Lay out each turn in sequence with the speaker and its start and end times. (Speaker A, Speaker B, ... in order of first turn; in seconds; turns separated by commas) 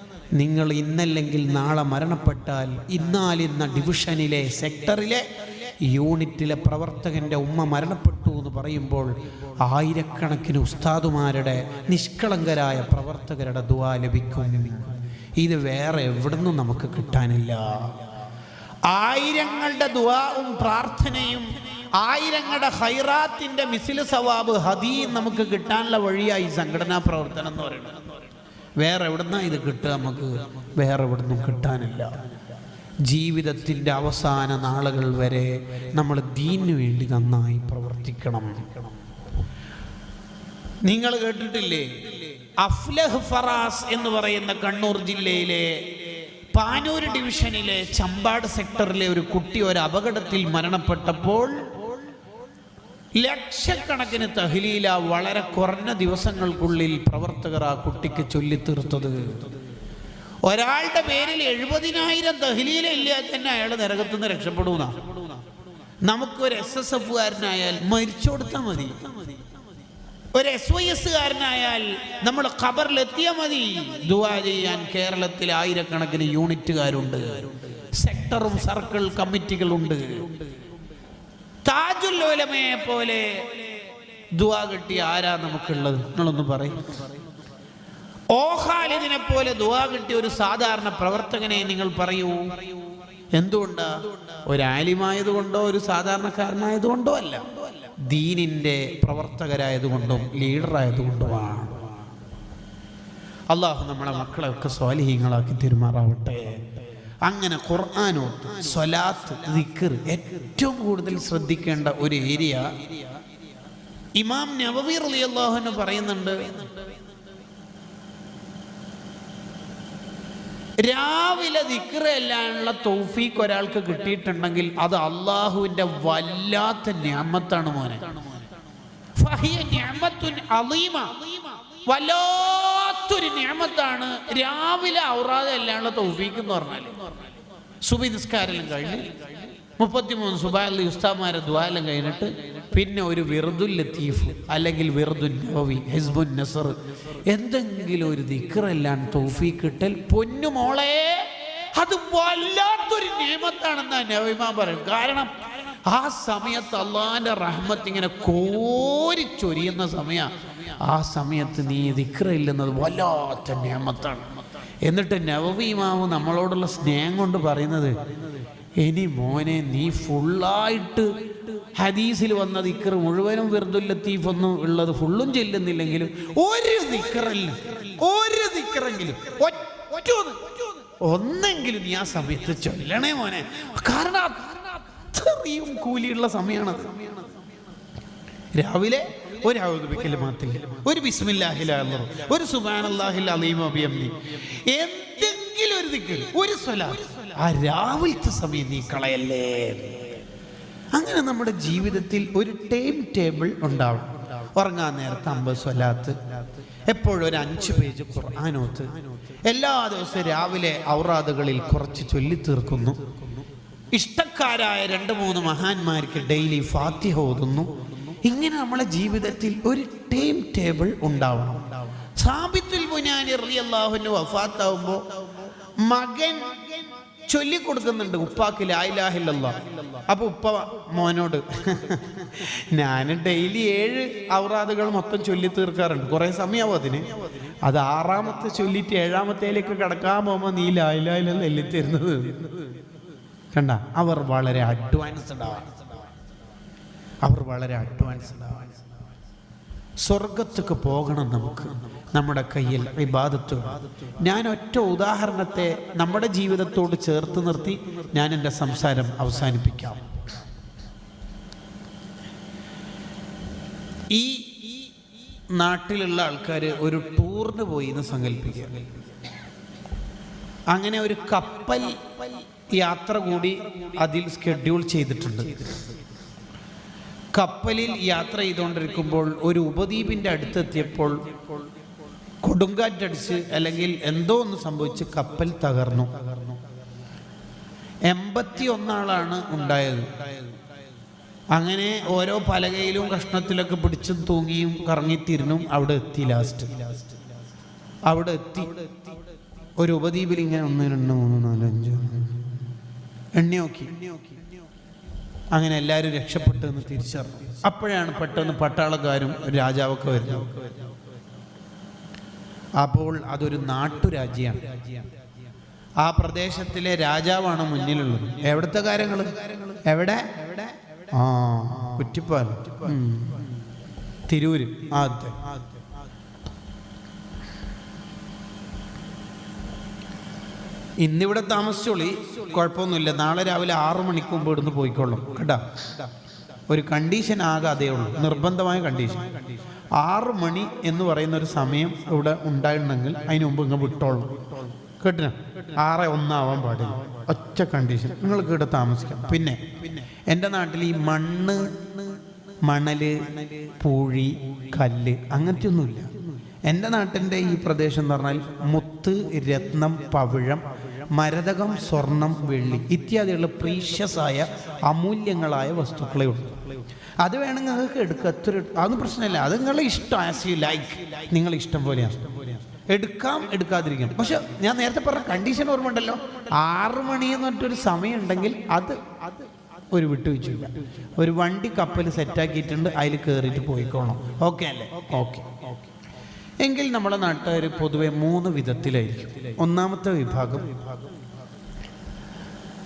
Speaker A: 0.3-18.1, Speaker A: 18.9-28.0, Speaker A: 28.8-32.3, Speaker A: 33.0-38.9, Speaker A: 40.8-51.6, Speaker A: 53.1-59.6, Speaker A: 60.4-65.2, Speaker A: 66.0-69.2, Speaker A: 70.3-80.4, Speaker A: 81.6-83.7, Speaker A: 84.3-87.1, Speaker A: 88.3-92.6, Speaker A: 93.3-101.9, Speaker A: 103.5-112.9, Speaker A: 114.2-116.8, Speaker A: 120.8-128.1, Speaker A: 129.2-137.0, Speaker A: 137.8-139.2, Speaker A: 139.8-168.0, Speaker A: 168.8-187.3, Speaker A: 188.5-200.2, Speaker A: 200.9-213.1, Speaker A: 213.9-242.7, Speaker A: 243.5-245.8, Speaker A: 247.2-248.8, Speaker A: 250.0-260.2, Speaker A: 264.1-264.8, Speaker A: 265.5-269.1, Speaker A: 270.7-275.9, Speaker A: 277.3-281.3, Speaker A: 282.4-286.4, Speaker A: 288.1-290.1, Speaker A: 291.5-296.9, Speaker A: 298.1-299.0, Speaker A: 299.8-302.5, Speaker A: 303.4-304.1, Speaker A: 305.5-310.7, Speaker A: 312.8-315.0, Speaker A: 316.0-323.5, Speaker A: 324.3-325.6, Speaker A: 331.0-336.1, Speaker A: 336.7-356.1, Speaker A: 356.6-379.1, Speaker A: 379.9-385.7, Speaker A: 386.6-390.9